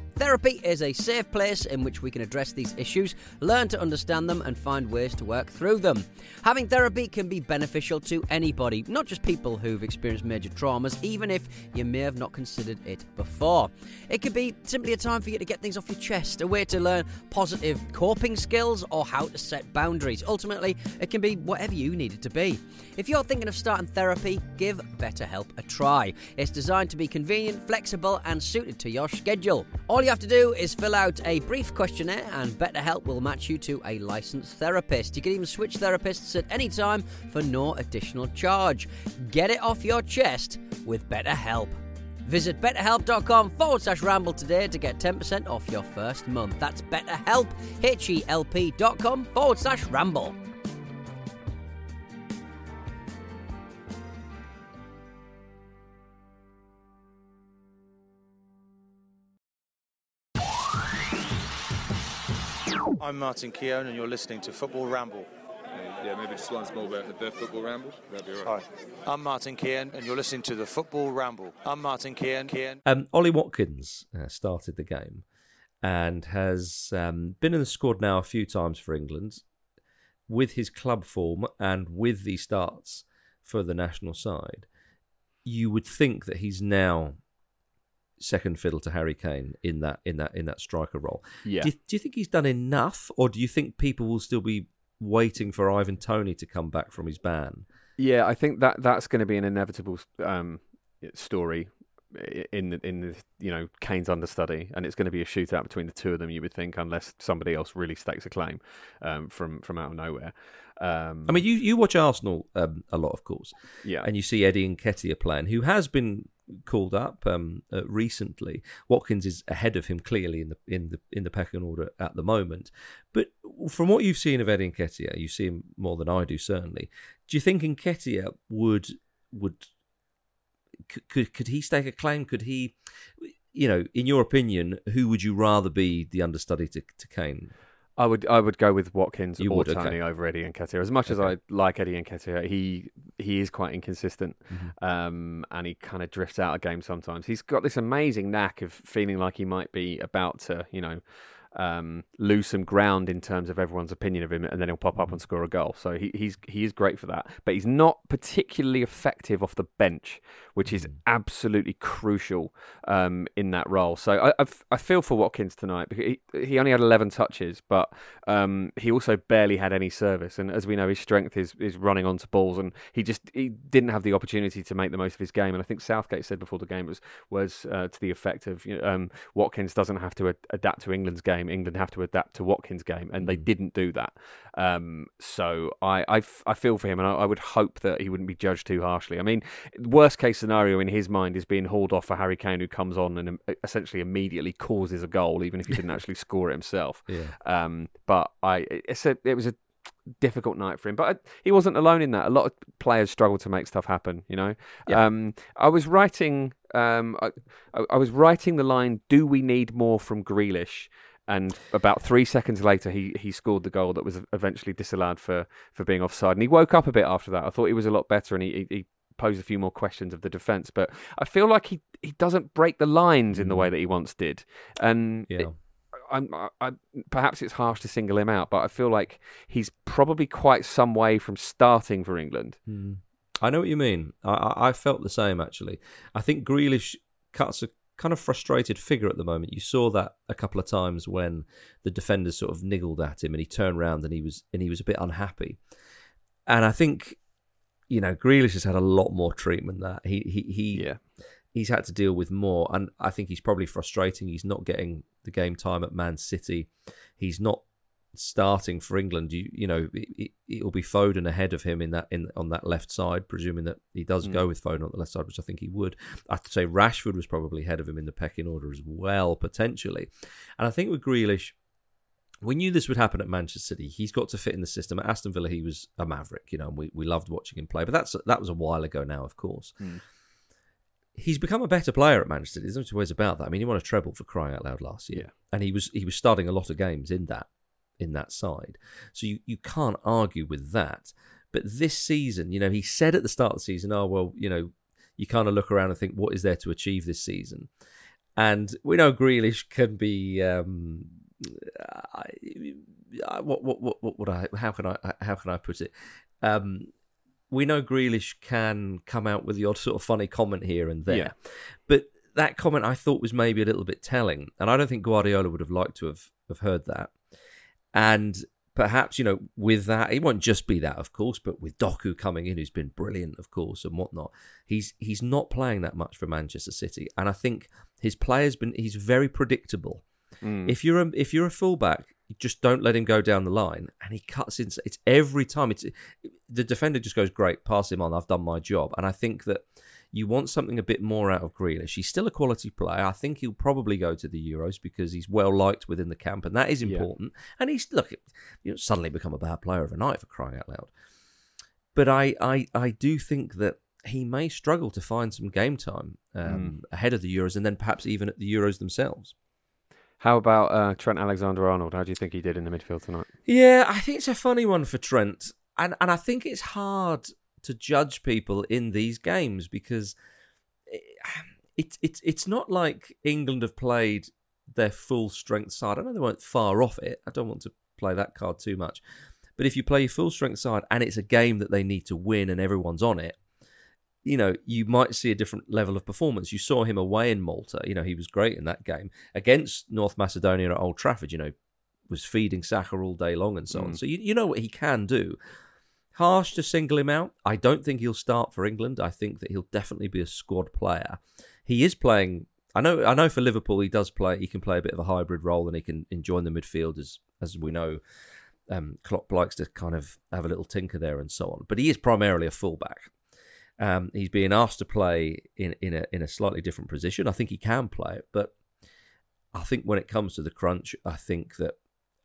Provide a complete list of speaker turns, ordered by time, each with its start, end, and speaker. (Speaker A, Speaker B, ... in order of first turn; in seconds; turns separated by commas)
Speaker A: 0.1-50.4, Speaker B: 63.0-65.3, Speaker C: 65.7-68.5, Speaker B: 68.4-72.8, Speaker D: 72.8-75.2, Speaker D: 75.8-79.4, Speaker D: 80.3-84.7, Speaker D: 85.4-87.2, Speaker D: 88.2-97.7, Speaker E: 91.4-91.7, Speaker E: 98.0-111.4, Speaker D: 111.3-129.7, Speaker E: 113.8-114.1, Speaker D: 130.9-137.5, Speaker E: 138.0-232.6, Speaker D: 139.4-140.0, Speaker D: 141.1-141.3, Speaker D: 160.6-160.9, Speaker D: 183.2-183.5, Speaker D: 197.1-197.3, Speaker D: 223.3-223.7, Speaker D: 225.3-225.5, Speaker D: 232.7-245.6, Speaker D: 246.5-247.2, Speaker D: 247.9-250.8, Speaker E: 250.7-251.0, Speaker D: 251.5-271.6, Speaker D: 272.4-279.8, Speaker D: 281.1-287.5, Speaker D: 288.0-297.7, Speaker D: 298.4-306.9, Speaker D: 307.5-317.1, Speaker D: 317.9-330.0, Speaker E: 330.4-330.7, Speaker D: 330.6-350.9, Speaker D: 351.9-359.3, Speaker E: 356.4-356.7, Speaker E: 360.2-363.3, Speaker D: 363.4-370.1, Speaker D: 370.9-379.0, Speaker D: 379.6-383.4, Speaker D: 384.2-391.5, Speaker D: 392.1-395.4, Speaker E: 393.7-394.0, Speaker D: 396.1-408.0, Speaker D: 408.7-413.1, Speaker D: 413.8-418.5, Speaker D: 419.5-421.8